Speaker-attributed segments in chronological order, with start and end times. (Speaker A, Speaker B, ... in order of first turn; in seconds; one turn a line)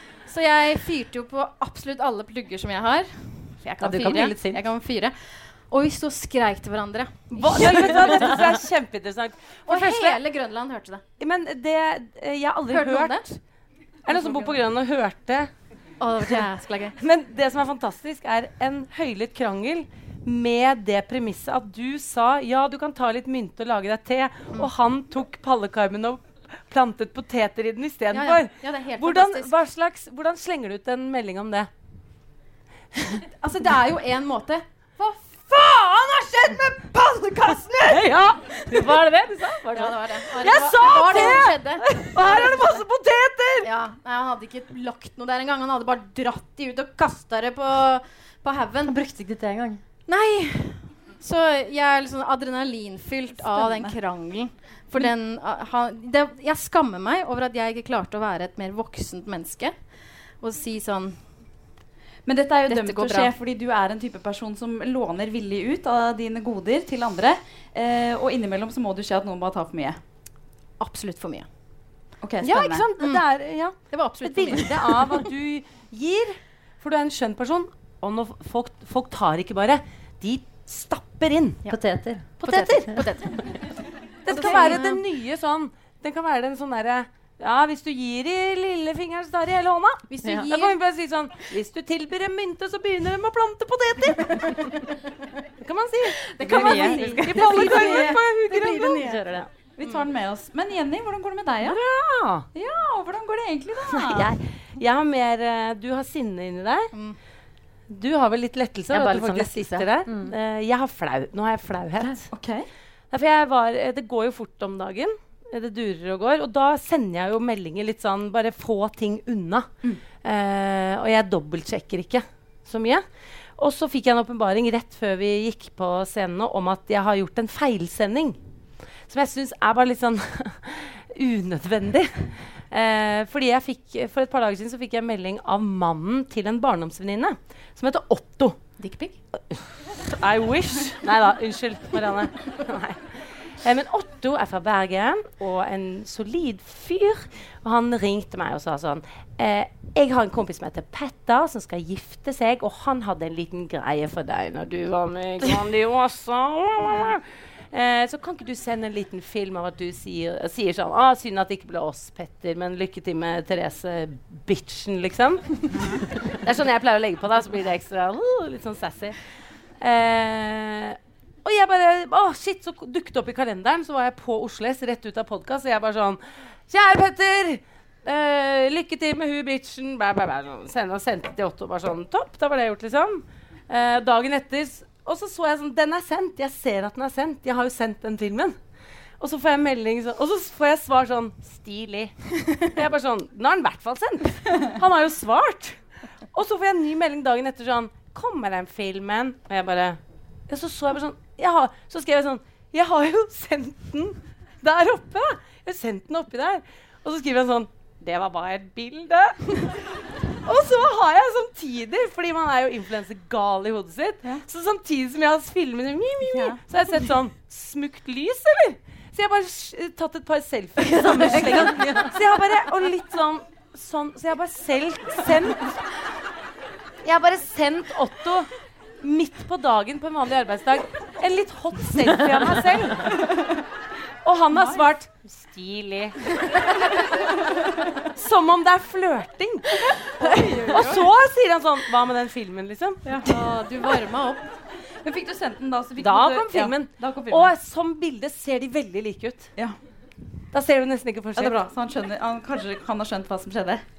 Speaker A: 0.2-8.3
Speaker B: 3.8-4.6
Speaker C: 7.3-10.2
Speaker B: 7.6-8.4
Speaker A: 9.7-11.0
Speaker C: 11.2-13.2
Speaker A: 12.7-13.3
Speaker C: 14.1-15.5
Speaker A: 14.1-14.5
Speaker A: 16.0-16.9
Speaker C: 17.0-31.7
Speaker A: 28.1-29.5
Speaker A: 33.4-35.5
Speaker C: 35.5-36.9
Speaker C: 37.8-43.7
Speaker A: 39.7-42.8
Speaker A: 43.6-48.9
Speaker B: 48.8-49.8
Speaker A: 50.1-61.6
Speaker D: 53.4-54.0
Speaker D: 62.2-70.0
Speaker A: 62.7-63.3
Speaker A: 70.8-71.5
Speaker D: 72.2-72.8
Speaker C: 72.4-81.7
Speaker A: 73.0-75.0
Speaker B: 81.7-83.0
Speaker A: 82.4-83.7
Speaker C: 82.4-82.9
Speaker C: 84.2-94.8
Speaker A: 84.2-84.9
Speaker B: 84.3-84.8
Speaker A: 90.1-90.8
Speaker C: 95.6-99.5
Speaker B: 96.4-99.5
Speaker D: 96.4-99.1
Speaker D: 99.8-101.8
Speaker C: 101.6-102.5
Speaker D: 102.5-104.3
Speaker C: 104.0-106.9
Speaker C: 107.9-112.2
Speaker B: 108.9-110.3
Speaker D: 112.3-112.7
Speaker C: 113.1-123.0
Speaker C: 123.6-128.4
Speaker C: 129.1-138.6
Speaker A: 138.8-139.1
Speaker C: 139.5-165.7
Speaker D: 165.7-166.0
Speaker C: 166.3-169.2
Speaker C: 169.8-188.6
Speaker C: 189.2-195.8
Speaker C: 196.3-209.7
Speaker C: 210.4-225.7
Speaker D: 216.2-216.6
Speaker B: 220.8-222.2
Speaker C: 227.0-228.5
Speaker C: 229.0-233.3
Speaker C: 234.2-236.2
Speaker C: 238.1-243.0
Speaker A: 240.5-240.8
Speaker D: 243.0-243.4
Speaker A: 243.2-244.4
Speaker D: 245.0-247.5
Speaker C: 246.0-249.5
Speaker C: 250.5-251.6
Speaker D: 251.3-253.8